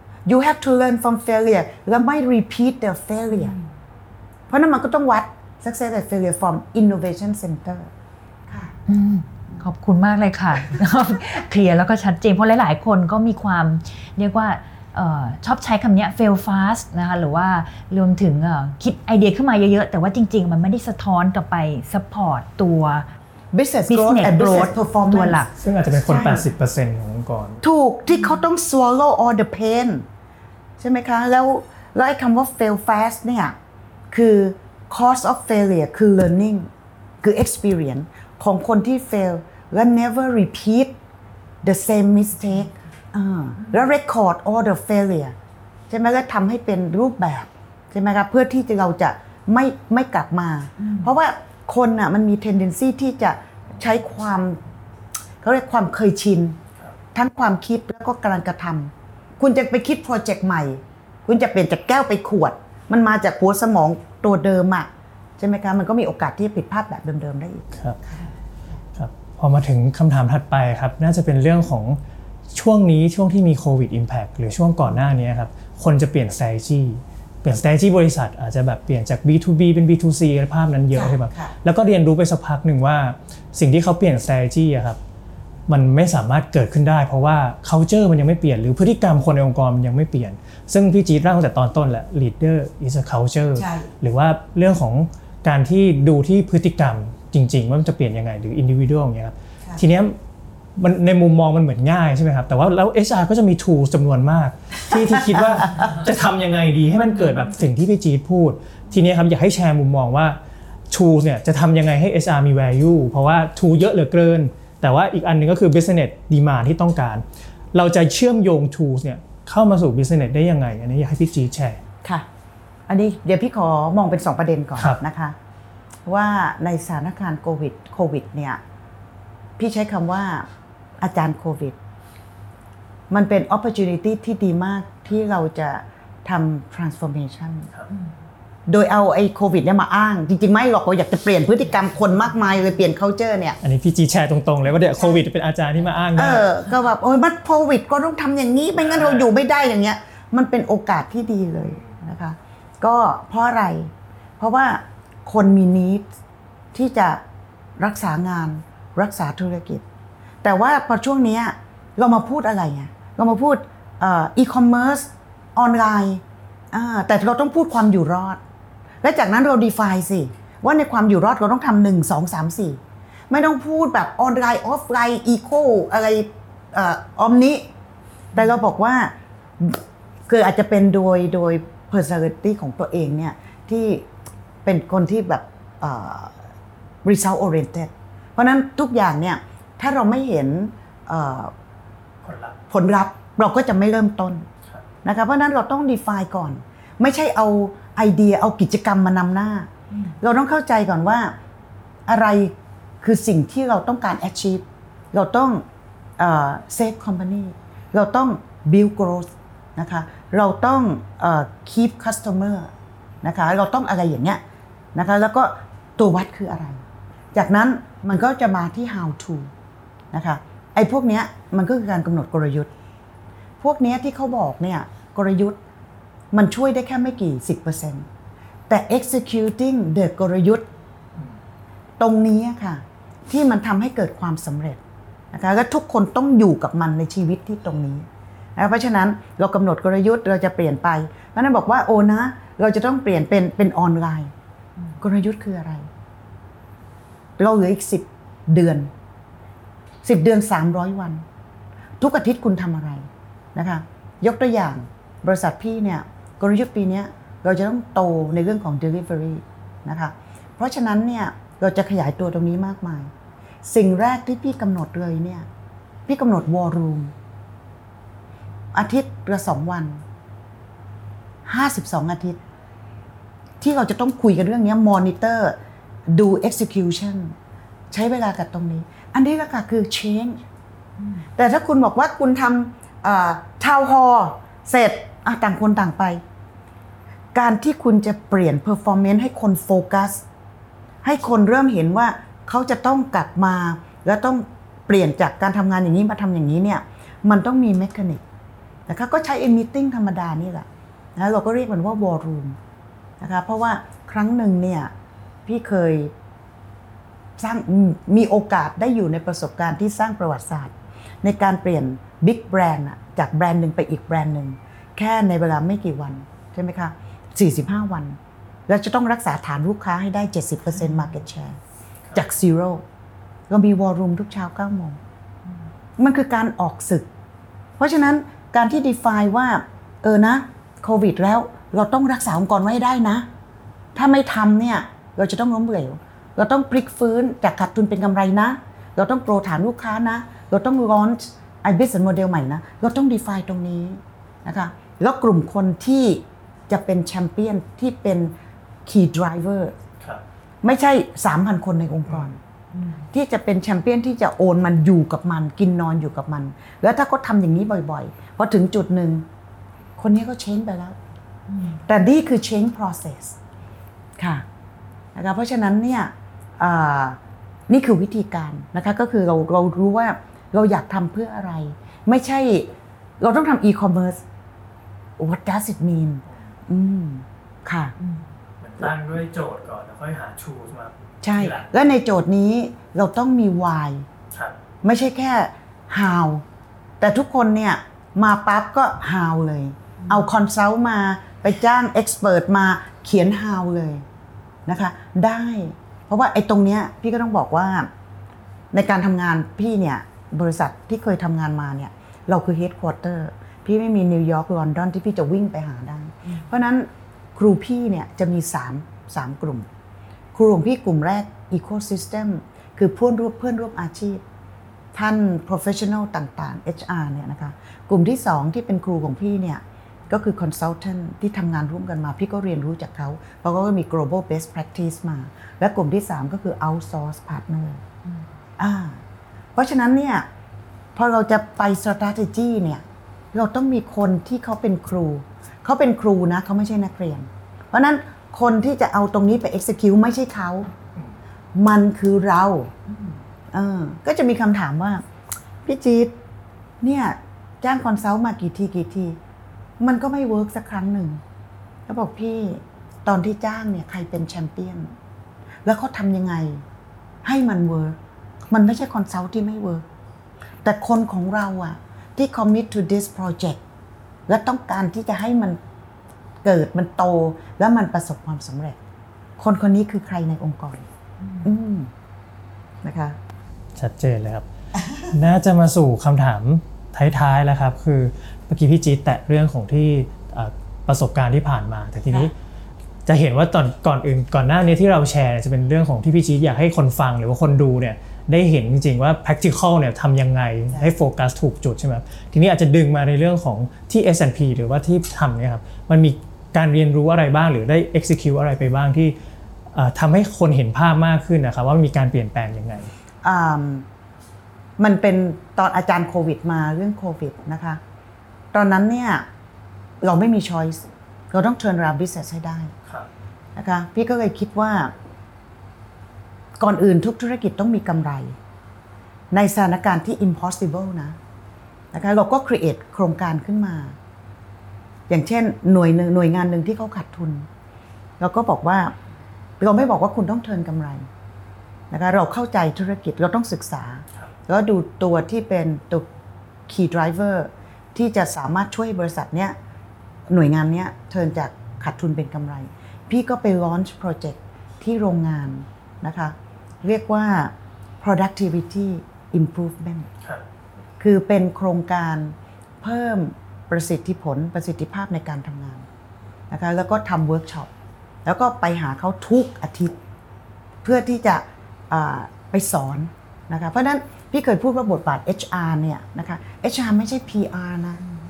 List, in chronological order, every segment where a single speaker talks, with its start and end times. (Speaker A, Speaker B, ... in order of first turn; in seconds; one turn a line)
Speaker A: 0.2-3.5
Speaker A: 4.5-7.9
Speaker A: 8.5-8.7
Speaker B: 8.9-23.1
Speaker A: 23.5-25.5
Speaker B: 23.9-25.5
Speaker C: 25.6-27.6
Speaker A: 26.1-26.5
Speaker A: 27.6-30.1
Speaker A: 30.8-33.5
Speaker A: 34.1-36.7
Speaker A: 37.2-41.0
Speaker A: 41.6-45.3
Speaker A: 45.9-54.6
Speaker B: 50.8-51.1
Speaker A: 55.4-56.6
Speaker A: 57.1-68.2
Speaker C: 69.0-72.0
Speaker C: 72.5-85.0
Speaker A: 80.9-81.5
Speaker C: 85.7-100.2
Speaker A: 93.5-93.9
Speaker C: 100.8-110.4
Speaker A: 105.4-105.6
Speaker C: 110.9-121.8
Speaker A: 122.9-125.3
Speaker A: 126.0-128.6
Speaker A: 129.6-130.5
Speaker A: 131.0-131.8
Speaker A: 133.1-137.7
Speaker A: 138.7-143.6
Speaker C: 143.6-146.5
Speaker A: 146.2-156.0
Speaker C: 148.9-149.2
Speaker A: 156.7-157.2
Speaker A: 157.8-159.8
Speaker A: 160.4-168.4
Speaker A: 169.0-177.7
Speaker A: 178.3-184.1
Speaker A: 184.6-186.4
Speaker A: 187.0-191.5
Speaker C: 192.2-192.6
Speaker A: 192.7-194.5
Speaker A: 195.0-199.7
Speaker A: 200.2-201.3
Speaker A: 202.1-205.6
Speaker A: 206.2-212.7
Speaker A: 213.2-214.4
Speaker A: 214.9-216.8
Speaker A: 217.3-219.5
Speaker A: 220.1-222.7
Speaker A: 223.6-225.6
Speaker A: 226.3-228.1
Speaker A: 228.7-230.7
Speaker A: 232.0-244.3
Speaker A: 245.0-245.9
Speaker A: 247.4-248.9
Speaker A: 250.0-251.2
Speaker A: 252.0-263.1
Speaker A: 263.6-265.5
Speaker A: 266.1-267.1
Speaker A: 268.7-270.0
Speaker A: 271.4-272.4
Speaker A: 273.6-275.6
Speaker A: 276.1-277.3
Speaker A: 277.9-280.4
Speaker B: 281.0-281.2
Speaker A: 281.4-286.2
Speaker A: 287.3-290.2
Speaker A: 291.0-298.2
Speaker A: 298.9-302.6
Speaker A: 303.2-304.9
Speaker A: 305.4-306.1
Speaker A: 307.4-321.6
Speaker A: 322.1-322.8
Speaker A: 323.5-325.0
Speaker A: 326.0-327.1
Speaker A: 327.8-333.3
Speaker A: 333.9-348.3
Speaker A: 348.8-349.8
Speaker A: 350.6-352.4
Speaker B: 352.7-353.0
Speaker A: 353.1-359.2
Speaker A: 360.0-361.0
Speaker B: 361.5-361.8
Speaker A: 361.9-363.4
Speaker A: 364.2-364.4
Speaker A: 365.1-374.2
Speaker A: 375.2-377.9
Speaker C: 378.6-381.6
Speaker A: 381.2-384.1
Speaker A: 384.8-386.4
Speaker A: 387.0-394.0
Speaker A: 394.6-397.9
Speaker A: 398.7-409.7
Speaker A: 410.3-414.2
Speaker A: 414.9-427.8
Speaker A: 428.6-429.0
Speaker A: 429.6-430.2
Speaker A: 430.9-440.7
Speaker A: 441.5-442.7
Speaker A: 443.5-445.0
Speaker A: 445.6-446.1
Speaker A: 446.8-449.2
Speaker A: 449.8-451.2
Speaker A: 451.9-454.9
Speaker A: 455.6-456.6
Speaker A: 457.2-458.0
Speaker A: 458.5-459.8
Speaker A: 460.6-463.6
Speaker A: 464.3-465.6
Speaker A: 466.4-468.8
Speaker A: 469.4-470.9
Speaker B: 471.2-471.5
Speaker A: 471.4-471.9
Speaker A: 472.8-473.2
Speaker C: 473.8-474.4
Speaker C: 475.0-482.3
Speaker C: 483.1-499.1
Speaker C: 499.7-502.9
Speaker A: 503.2-503.8
Speaker A: 504.8-507.8
Speaker A: 508.5-509.2
Speaker A: 510.0-512.7
Speaker A: 513.5-514.9
Speaker A: 516.6-518.4
Speaker A: 519.3-521.2
Speaker A: 521.9-524.0
Speaker A: 525.1-527.5
Speaker A: 528.2-528.9
Speaker A: 529.6-531.1
Speaker A: 531.9-536.1
Speaker A: 536.7-539.5
Speaker A: 540.3-550.1
Speaker A: 551.0-555.9
Speaker A: 556.5-557.7
Speaker A: 558.2-560.0
Speaker A: 560.8-568.0